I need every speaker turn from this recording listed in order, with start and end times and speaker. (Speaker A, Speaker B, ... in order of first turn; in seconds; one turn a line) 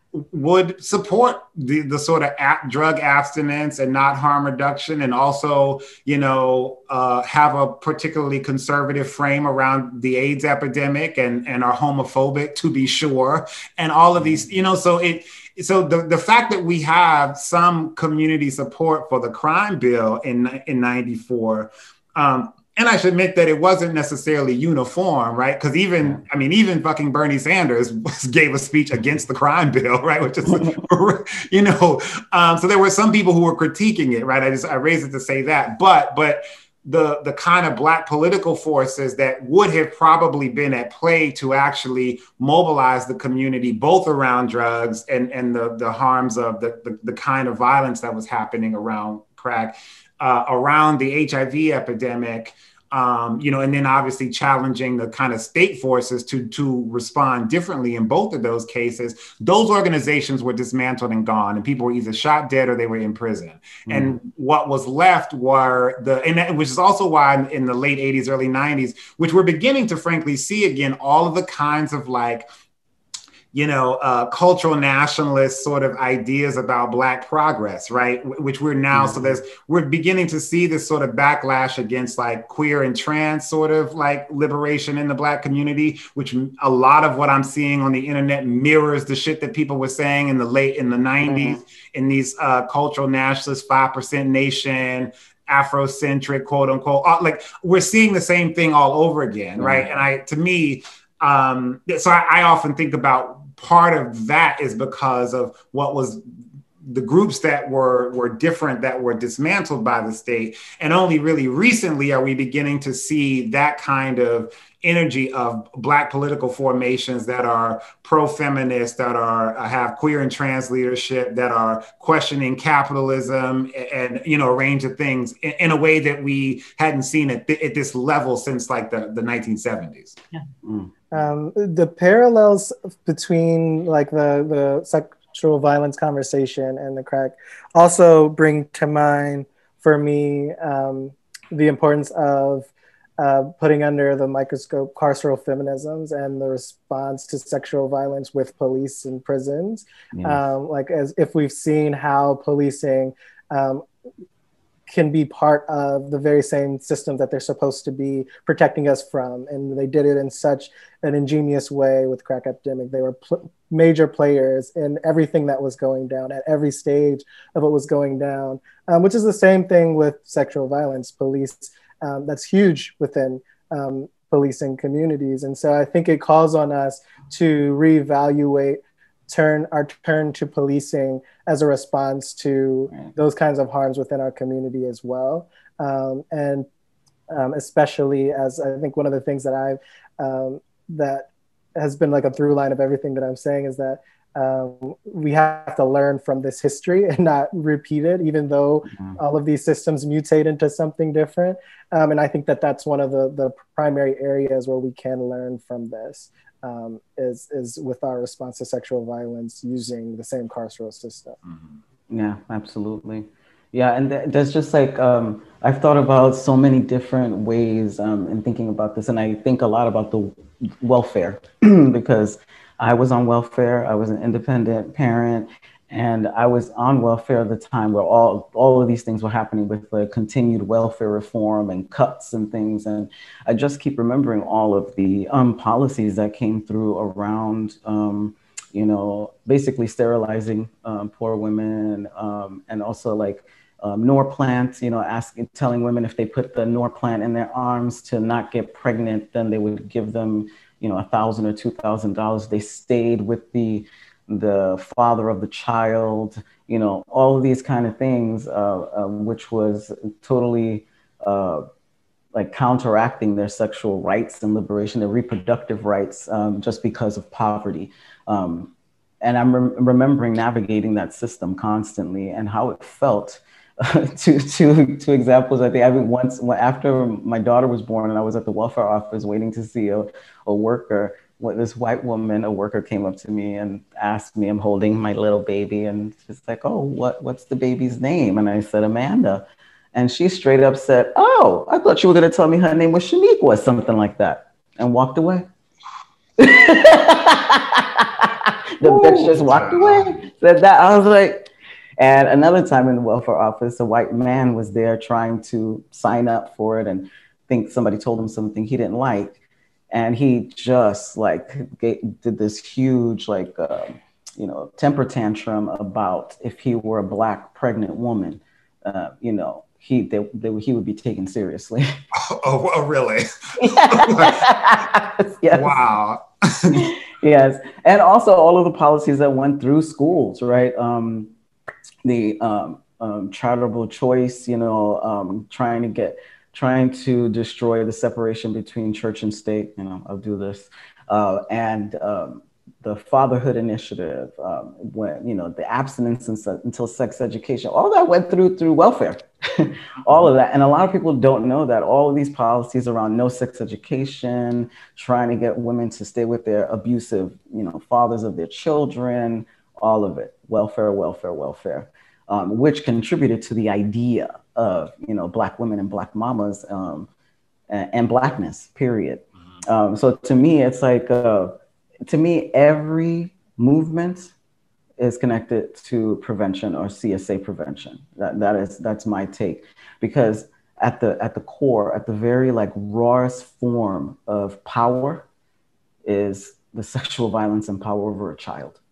Speaker A: 0.1-72.5
Speaker B: 63.9-64.2
Speaker A: 73.5-106.2
Speaker B: 78.9-79.4
Speaker B: 91.2-91.6
Speaker B: 99.6-99.9
Speaker A: 106.8-130.2
Speaker B: 130.6-130.9
Speaker C: 131.1-153.8
Speaker B: 150.1-150.4
Speaker C: 154.9-186.7
Speaker C: 187.3-211.4
Speaker B: 198.9-199.2
Speaker A: 211.5-211.7
Speaker B: 212.1-261.6
Speaker B: 262.3-295.5
Speaker B: 296.4-309.4
Speaker A: 298.8-300.2
Speaker B: 309.9-321.9
Speaker A: 322.1-324.4
Speaker B: 323.6-325.7
Speaker A: 325.5-326.9
Speaker B: 326.7-331.3
Speaker B: 332.1-367.1
Speaker B: 367.7-371.6
Speaker B: 372.1-374.3
Speaker B: 375.0-385.3
Speaker B: 386.0-388.8